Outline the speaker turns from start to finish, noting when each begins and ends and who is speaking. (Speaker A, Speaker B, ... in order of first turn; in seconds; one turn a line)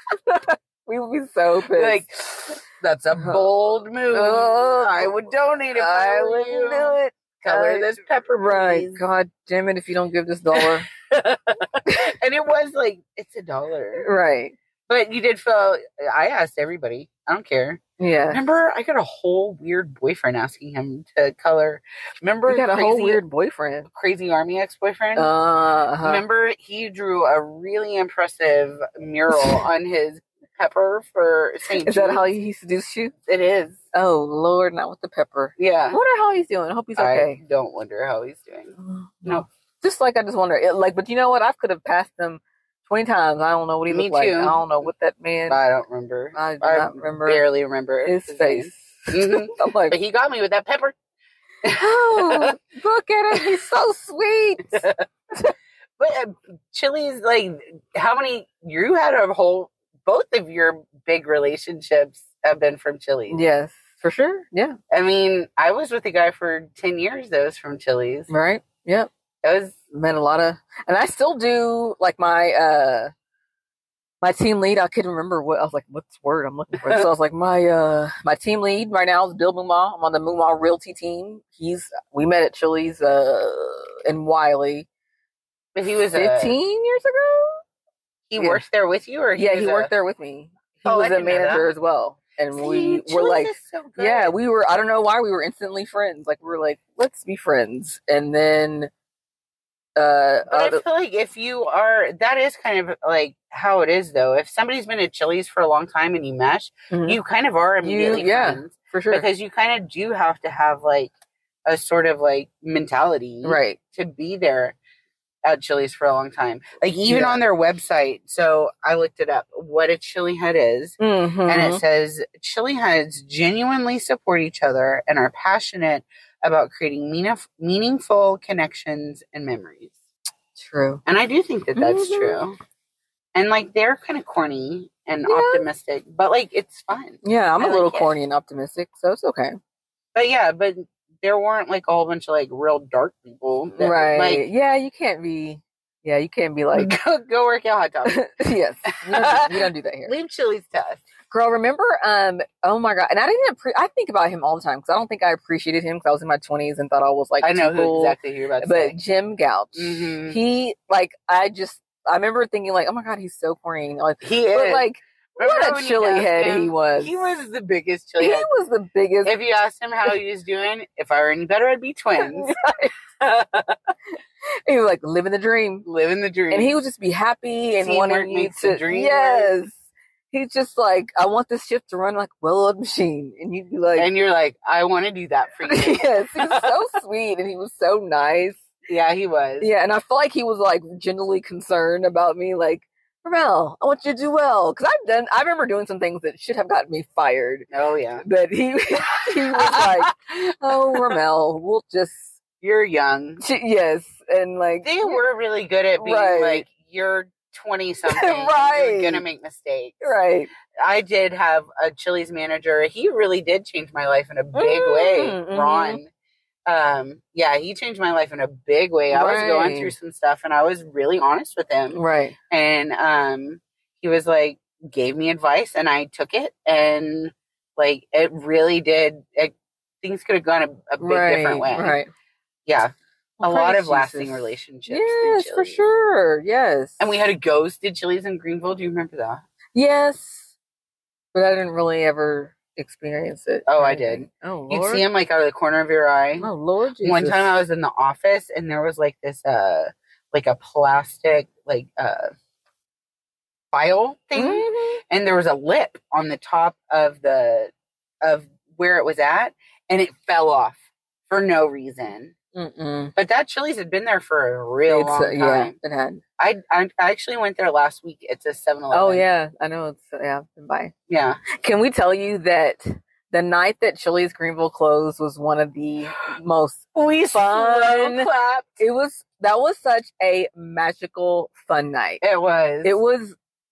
Speaker A: 0.2-2.5
Speaker B: 1.7-9.0
Speaker A: 3.1-3.4
Speaker A: 4.1-5.1
Speaker A: 5.7-10.9
Speaker B: 10.5-14.1
Speaker A: 11.8-12.1
Speaker A: 14.0-14.6
Speaker B: 14.9-23.2
Speaker A: 18.0-18.4
Speaker A: 22.5-23.9
Speaker B: 23.9-25.3
Speaker A: 25.1-26.2
Speaker B: 26.0-32.3
Speaker A: 29.3-29.6
Speaker A: 31.8-33.1
Speaker B: 33.3-33.8
Speaker A: 33.9-37.4
Speaker B: 35.6-36.0
Speaker B: 37.0-39.4
Speaker A: 38.8-45.6
Speaker B: 43.9-44.9
Speaker B: 45.5-51.0
Speaker A: 46.3-47.4
Speaker A: 48.0-49.9
Speaker B: 51.6-52.6
Speaker A: 51.7-54.8
Speaker B: 53.3-53.6
Speaker B: 54.7-55.0
Speaker B: 56.0-63.4
Speaker A: 63.3-64.8
Speaker B: 64.9-68.3
Speaker A: 68.3-69.1
Speaker B: 69.4-69.8
Speaker A: 69.9-73.1
Speaker A: 74.2-84.8
Speaker B: 85.7-86.5
Speaker A: 86.1-87.6
Speaker B: 88.3-89.9
Speaker A: 88.4-88.6
Speaker A: 89.3-98.9
Speaker B: 90.8-91.7
Speaker B: 92.5-94.3
Speaker A: 100.0-100.8
Speaker B: 100.5-111.1
Speaker A: 106.9-107.2
Speaker A: 107.8-109.2
Speaker B: 111.7-114.8
Speaker A: 113.4-113.8
Speaker B: 115.4-129.9
Speaker A: 117.1-117.4
Speaker A: 121.0-121.8
Speaker A: 130.6-131.0
Speaker B: 131.1-132.6
Speaker A: 131.8-132.4
Speaker B: 133.3-138.1
Speaker A: 135.2-135.6
Speaker A: 137.2-139.6
Speaker B: 140.1-144.4
Speaker A: 143.8-146.9
Speaker B: 146.7-148.2
Speaker A: 148.1-150.1
Speaker B: 149.0-151.0
Speaker A: 151.3-167.2
Speaker B: 157.4-158.9
Speaker B: 159.8-160.4
Speaker B: 164.2-168.5
Speaker A: 168.2-169.3
Speaker B: 169.2-172.5
Speaker A: 172.2-172.9
Speaker B: 173.2-173.8
Speaker A: 174.7-175.8
Speaker B: 175.8-176.7
Speaker A: 176.5-179.8
Speaker B: 177.8-179.5
Speaker A: 180.3-184.1
Speaker B: 183.9-186.7
Speaker A: 185.6-188.6
Speaker B: 188.9-189.7
Speaker A: 189.6-197.7
Speaker B: 197.7-198.2
Speaker A: 198.2-202.3
Speaker B: 199.4-201.1
Speaker B: 202.6-203.4
Speaker A: 203.4-205.2
Speaker B: 204.8-210.1
Speaker A: 206.0-206.7
Speaker A: 208.1-209.2
Speaker A: 210.0-210.5
Speaker B: 210.8-216.1
Speaker A: 214.5-216.0
Speaker B: 216.7-222.0
Speaker A: 219.1-219.9
Speaker A: 221.9-222.3
Speaker B: 222.5-232.0
Speaker A: 231.0-232.1
Speaker B: 232.7-235.8
Speaker A: 233.4-237.0
Speaker B: 237.0-239.4
Speaker A: 239.7-240.5
Speaker A: 241.3-245.1
Speaker B: 243.7-246.5
Speaker A: 246.4-247.6
Speaker B: 247.0-252.3
Speaker B: 253.7-262.3
Speaker A: 254.3-255.0
Speaker A: 262.5-263.1
Speaker B: 263.1-265.7
Speaker A: 264.9-266.2
Speaker B: 266.4-269.2
Speaker A: 268.9-270.9
Speaker B: 271.1-271.4
Speaker A: 271.5-282.2
Speaker B: 276.9-278.8
Speaker B: 282.2-283.0
Speaker A: 282.8-283.4